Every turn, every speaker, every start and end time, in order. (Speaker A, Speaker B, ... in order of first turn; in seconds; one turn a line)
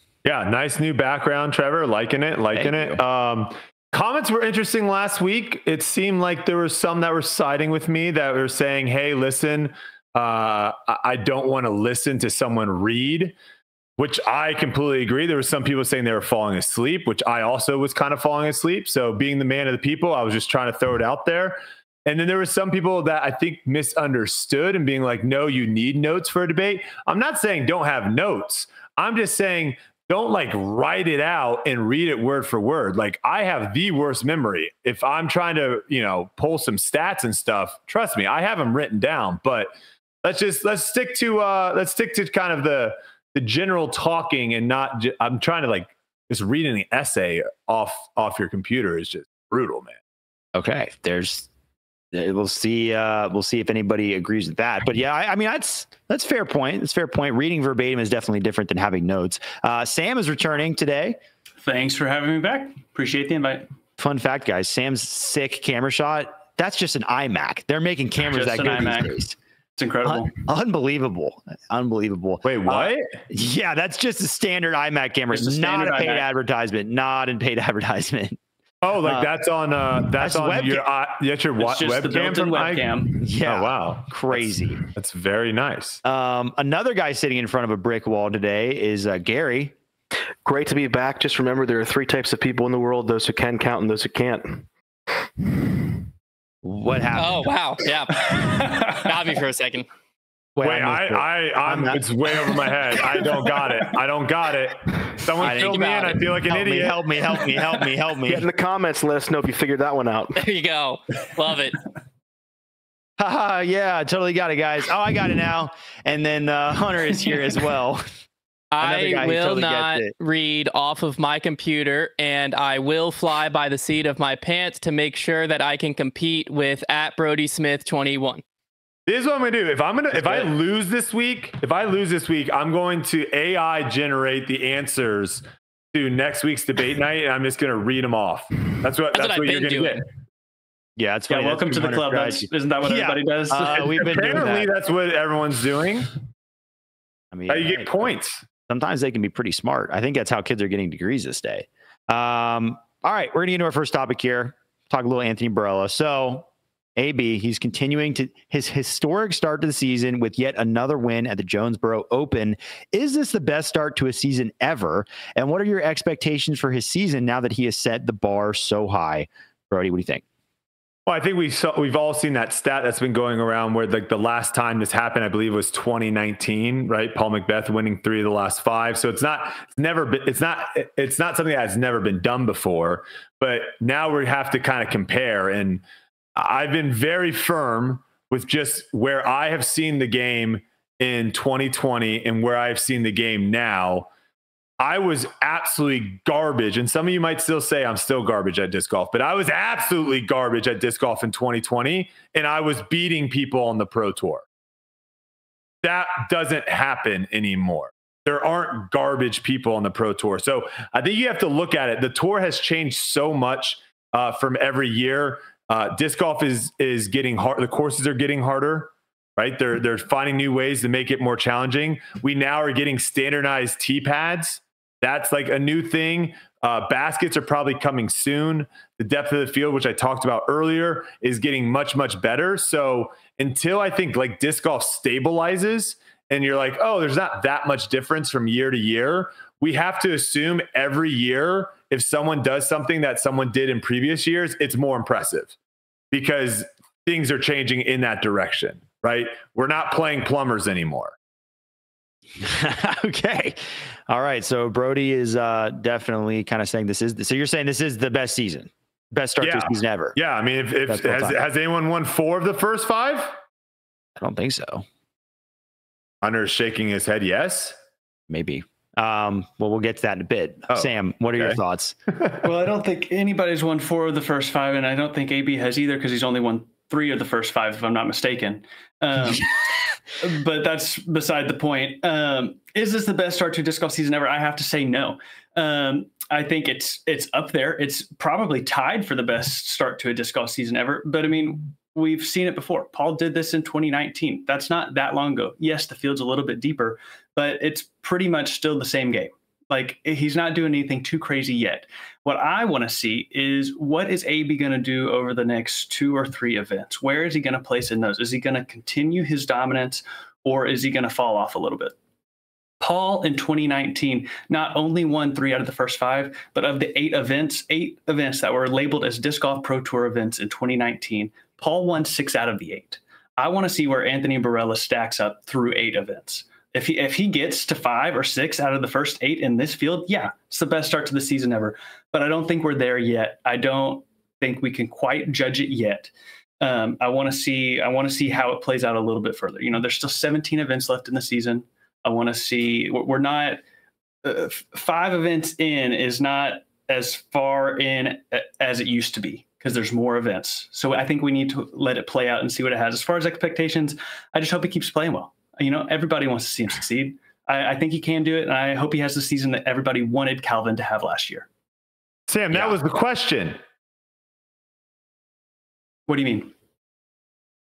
Speaker A: 0.2-13.3
Speaker B: 2.5-3.0
Speaker A: 14.0-39.7
Speaker A: 40.2-50.0
Speaker B: 50.5-51.5
Speaker B: 52.1-61.2
Speaker C: 61.6-63.7
Speaker B: 64.0-69.3
Speaker C: 68.3-69.2
Speaker C: 69.8-70.4
Speaker B: 70.0-78.4
Speaker A: 72.4-73.1
Speaker C: 75.3-76.3
Speaker A: 78.8-86.0
Speaker B: 79.0-79.3
Speaker B: 80.1-80.8
Speaker C: 81.6-83.2
Speaker B: 83.2-84.8
Speaker B: 86.0-89.7
Speaker D: 90.4-94.7
Speaker D: 95.4-96.0
Speaker B: 96.6-97.5
Speaker E: 97.2-99.9
Speaker C: 98.3-99.0
Speaker B: 100.5-102.8
Speaker A: 100.6-107.0
Speaker B: 105.3-108.5
Speaker D: 108.2-110.4
Speaker E: 110.4-111.8
Speaker B: 113.2-118.0
Speaker E: 118.7-128.4
Speaker B: 118.8-120.1
Speaker A: 129.1-140.0
Speaker E: 139.1-140.0
Speaker B: 141.0-144.7
Speaker C: 141.3-144.0
Speaker A: 143.7-146.1
Speaker B: 147.3-148.1
Speaker A: 147.5-148.4
Speaker B: 148.7-170.2
Speaker A: 171.1-185.8
Speaker A: 186.3-194.1
Speaker A: 194.8-204.4
Speaker A: 205.8-245.5
Speaker A: 246.1-251.1
Speaker B: 252.4-260.1
Speaker A: 259.4-263.4
Speaker B: 260.9-261.4
Speaker B: 264.2-264.8
Speaker A: 266.2-267.8
Speaker B: 268.3-271.9
Speaker A: 270.7-271.6
Speaker C: 272.4-279.5
Speaker C: 280.2-311.9
Speaker C: 312.8-343.6
Speaker C: 344.2-361.5
Speaker A: 362.3-363.6
Speaker B: 362.5-362.8
Speaker C: 366.1-366.5